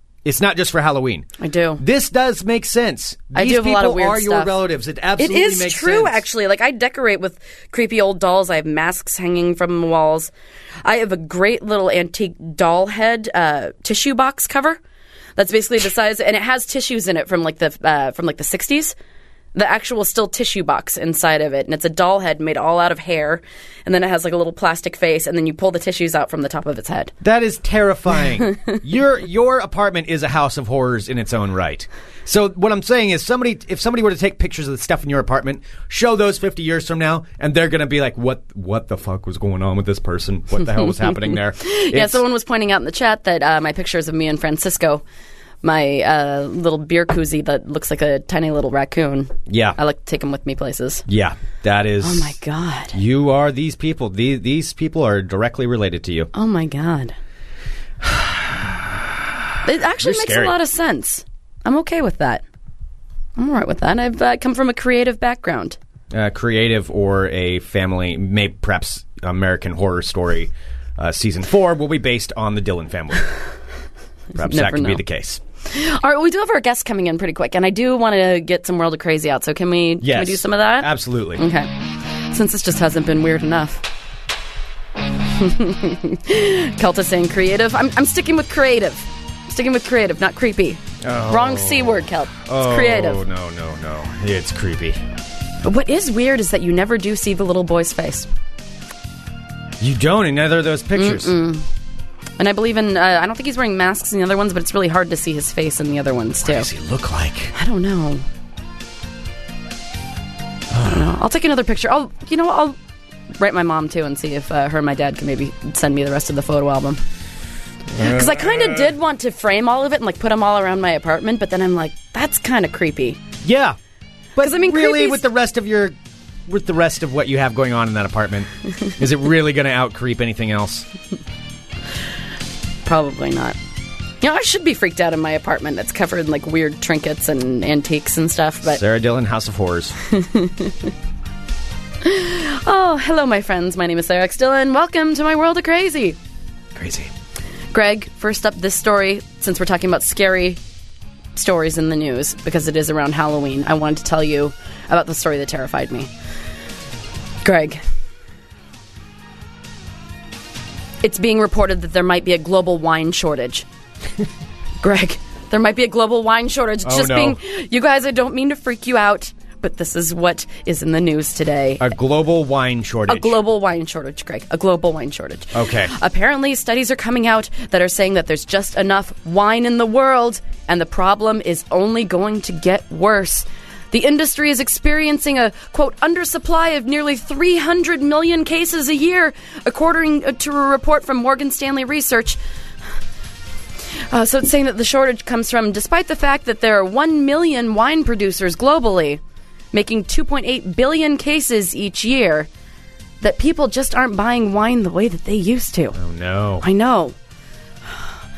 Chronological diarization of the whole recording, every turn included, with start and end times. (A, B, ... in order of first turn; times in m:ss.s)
0:00.2-0:06.2 A
0:01.4-0:01.8 B
0:03.3-0:04.5 B
0:05.2-0:10.3 B
0:10.8-0:14.8 B
0:15.4-0:18.9 B
0:19.5-0:27.1 B
0:27.2-0:42.2 A
0:40.8-0:45.0 B
0:45.6-0:51.0 B
0:49.5-0:49.8 A
0:51.1-0:52.3 A
0:52.0-0:52.9 B
0:52.9-0:56.3 A
0:56.3-0:57.1 B
0:58.0-0:59.2 A
0:59.6-1:02.4 B
1:00.0-1:00.5 A
1:03.4-1:05.8 B
1:06.1-1:13.3 A
1:14.3-1:15.0 B
1:14.3-1:15.4 A
1:15.6-1:21.7 B
1:20.0-1:21.4 A
1:22.3-1:23.8 B
1:25.3-1:33.2 B
1:31.0-1:35.0 A
1:35.6-1:38.3 B
1:39.8-1:41.3 A
1:40.9-1:41.6 B
1:42.4-1:46.7 B
1:46.4-1:47.5 A
1:47.5-1:48.2 B
1:50.7-1:51.1 A
1:50.8-1:52.8 B
1:53.4-1:57.0 B
1:57.9-1:58.9 A
1:58.0-2:03.2 B
2:03.4-2:03.8 A
2:04.4-2:06.0 A
2:04.4-2:05.2 B
2:06.5-2:10.9 A
2:12.8-2:13.6 B
2:14.2-2:18.8 B
2:18.6-2:20.0 A
2:20.1-2:20.9 B
2:22.0-2:26.2 B
2:26.7-2:27.1 A
2:27.7-2:30.6 B
2:31.3-2:36.1 B
2:37.4-2:37.8 B
2:41.0-2:43.6 B
2:44.8-2:51.9 B
2:46.8-2:47.4 A
2:51.8-2:53.4 A
2:53.1-3:12.4 B
2:55.5-2:55.9 A
3:14.1-3:19.2 B
3:19.7-3:22.5 B
3:23.2-3:26.0 B
3:25.9-3:26.7 A
3:26.6-3:27.1 B